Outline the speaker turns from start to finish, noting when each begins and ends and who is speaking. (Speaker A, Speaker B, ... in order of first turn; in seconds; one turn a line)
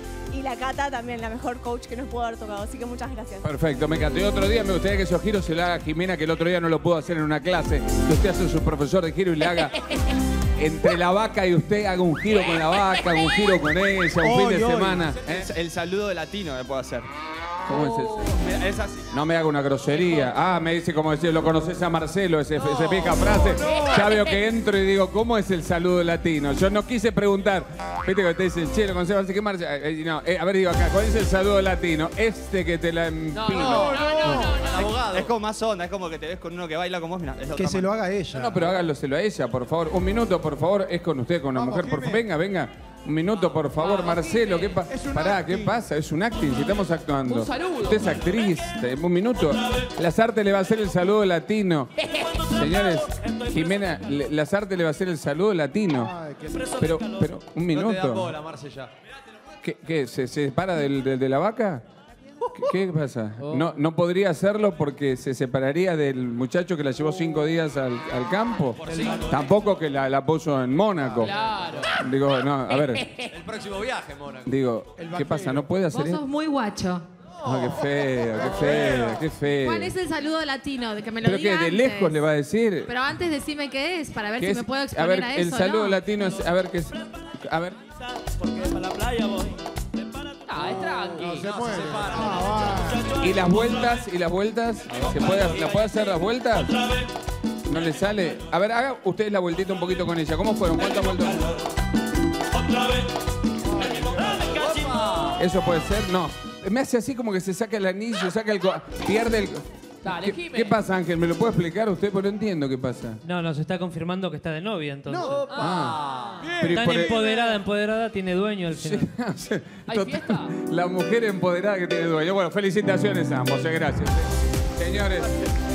Speaker A: 0.3-3.5
Speaker B: 3.4-9.8
Speaker B: 10.6-15.5
Speaker C: 14.2-15.0
Speaker D: 15.1-17.1
Speaker B: 17.7-18.4
Speaker E: 17.7-18.3
Speaker D: 18.4-19.1
Speaker B: 19.1-34.5
Speaker E: 23.5-24.4
Speaker E: 33.3-34.8
Speaker C: 34.1-34.5
Speaker F: 34.5-35.3
Speaker D: 34.7-37.9
Speaker C: 37.5-38.6
Speaker B: 38.3-56.2
Speaker C: 41.6-42.2
Speaker E: 44.0-44.7
Speaker C: 44.9-45.8
Speaker E: 47.3-48.0
Speaker C: 56.2-56.6
Speaker B: 56.7-58.4
Speaker F: 57.7-58.9
Speaker B: 59.6-61.8
Speaker B: 62.5-71.3
Speaker F: 69.0-69.3
Speaker E: 71.2-71.9
Speaker B: 71.9-73.1
Speaker F: 73.3-74.4
Speaker B: 74.5-76.2
Speaker C: 75.0-75.6
Speaker G: 75.9-77.1
Speaker B: 77.4-79.9
Speaker G: 79.6-82.2
Speaker B: 81.2-82.9
Speaker G: 82.9-86.0
Speaker B: 84.4-87.8
Speaker D: 88.8-89.5
Speaker E: 90.5-91.6
Speaker C: 91.2-93.1
Speaker F: 91.2-92.9
Speaker B: 93.2-96.8
Speaker B: 97.7-101.6
Speaker F: 104.4-105.3
Speaker B: 105.3-113.2
Speaker E: 110.0-110.8
Speaker H: 113.2-115.4
Speaker C: 115.2-115.5
Speaker E: 115.3-116.5
Speaker B: 115.5-116.0
Speaker F: 116.0-116.5
Speaker B: 116.6-117.2
Speaker H: 116.6-119.1
Speaker B: 118.7-125.3
Speaker E: 119.9-120.5